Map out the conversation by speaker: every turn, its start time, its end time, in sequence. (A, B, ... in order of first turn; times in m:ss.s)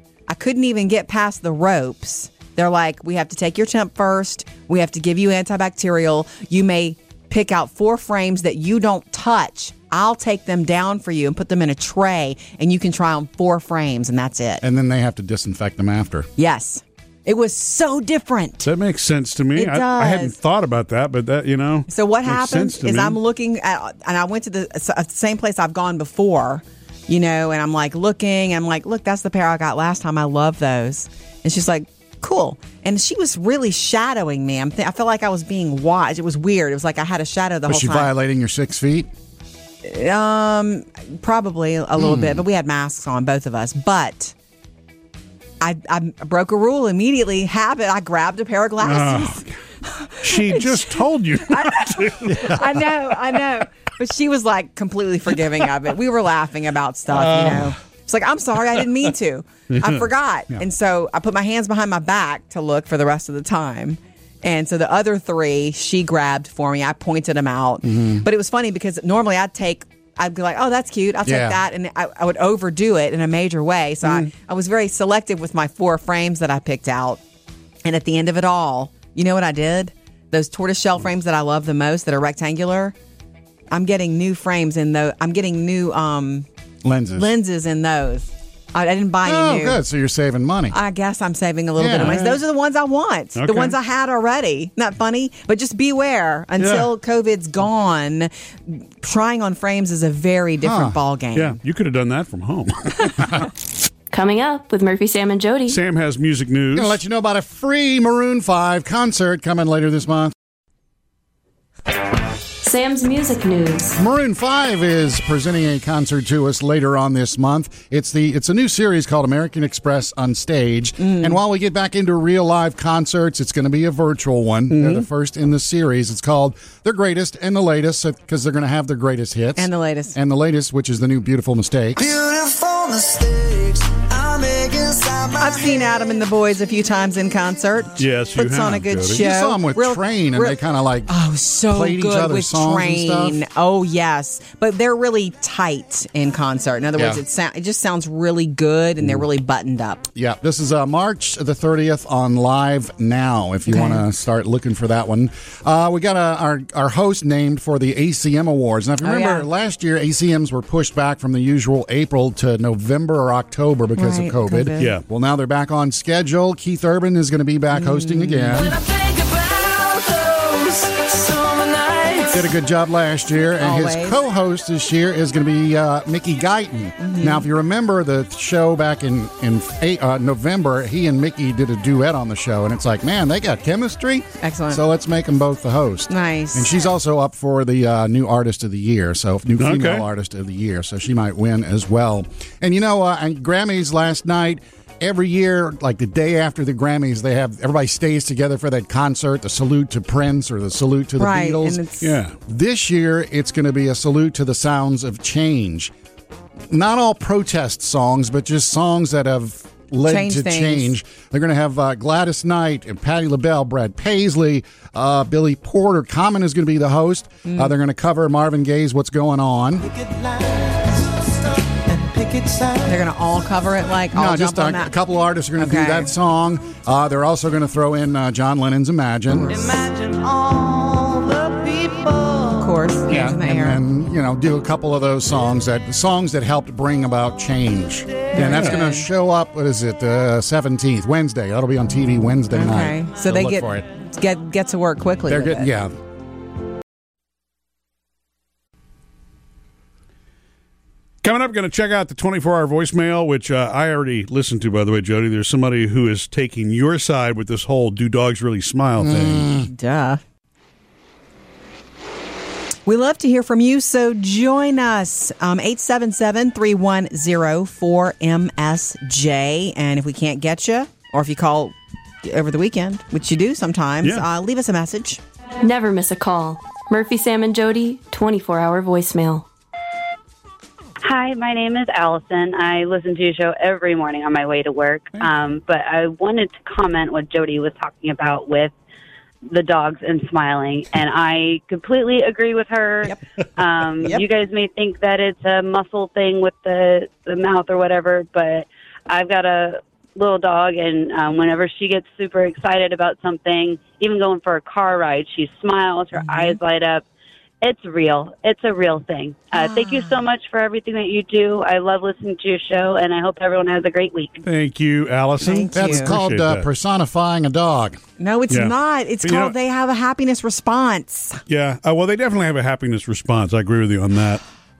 0:00.3-0:14.6 A
0:14.6-0:16.3 B
0:16.4-0:18.7 A
0:18.6-0:23.2 C
0:19.5-0:20.4 A
0:21.9-0:38.1 A
0:37.7-0:39.1 B
0:39.8-0:44.3 A
0:42.0-0:42.4 B
0:45.6-1:17.2 A
0:48.8-0:49.5 C
0:50.2-0:52.7 C
0:57.1-0:57.7 C
1:07.8-1:08.2 B
1:11.2-1:11.6 B
1:17.8-1:22.9 A
1:23.7-1:26.4 A
1:26.8-1:27.3 B
1:27.2-1:29.8 A
1:29.2-1:30.7 B
1:30.7-1:41.6 A
1:31.8-1:32.3 B
1:32.0-1:32.4 C
1:33.4-1:33.8 C
1:36.6-1:36.9 C
1:40.6-1:41.0 B
1:41.3-1:43.4 C
1:44.1-1:45.8 D
1:45.7-1:47.0 C
1:46.7-1:50.3 B
1:52.6-1:54.0 D
1:54.0-2:12.0 B
2:01.0-2:01.4 A
2:09.6-2:10.2 A
2:12.0-2:16.1 E
2:15.4-2:30.1 A
2:18.0-2:19.2 C
2:19.1-2:21.1 B
2:21.7-2:23.4 B
2:30.1-2:48.8 B
2:33.7-2:34.0 A
2:39.0-2:39.5 A
2:44.0-2:45.0 A
2:44.8-2:45.0 C
2:47.7-2:48.6 A
2:48.5-2:52.5 E
2:52.3-3:21.8 B
2:53.6-2:54.2 A
2:57.0-2:57.5 A
3:04.4-3:04.8 A
3:06.1-3:06.7 A
3:09.6-3:10.1 C
3:21.2-3:22.2 A
3:22.0-3:22.4 C
3:22.4-3:25.9 B
3:26.7-3:39.9 B
3:30.0-3:30.9 A
3:37.4-3:37.7 A
3:39.8-3:43.1 E
3:42.8-3:44.9 A
3:44.1-3:49.6 B
3:45.6-3:46.1 A
3:49.3-3:49.6 A
3:49.5-3:52.7 E
3:52.6-3:53.8 A
3:53.1-4:03.8 B
3:58.3-3:59.1 A
4:02.5-4:05.7 A
4:05.3-4:05.9 B
4:11.2-4:19.5 C
4:19.0-4:19.7 B
4:19.6-4:20.2 A
4:22.8-4:35.2 A
4:35.6-4:39.4 D
4:41.0-4:48.7 F
4:49.5-5:07.0 F
5:06.1-5:06.6 A
5:07.6-5:14.4 F
5:09.5-5:10.2 A
5:14.4-5:16.7 C
5:15.4-5:16.2 A
5:15.7-5:18.0 B
5:18.2-5:21.4 A
5:18.5-5:19.5 C
5:21.5-5:24.4 C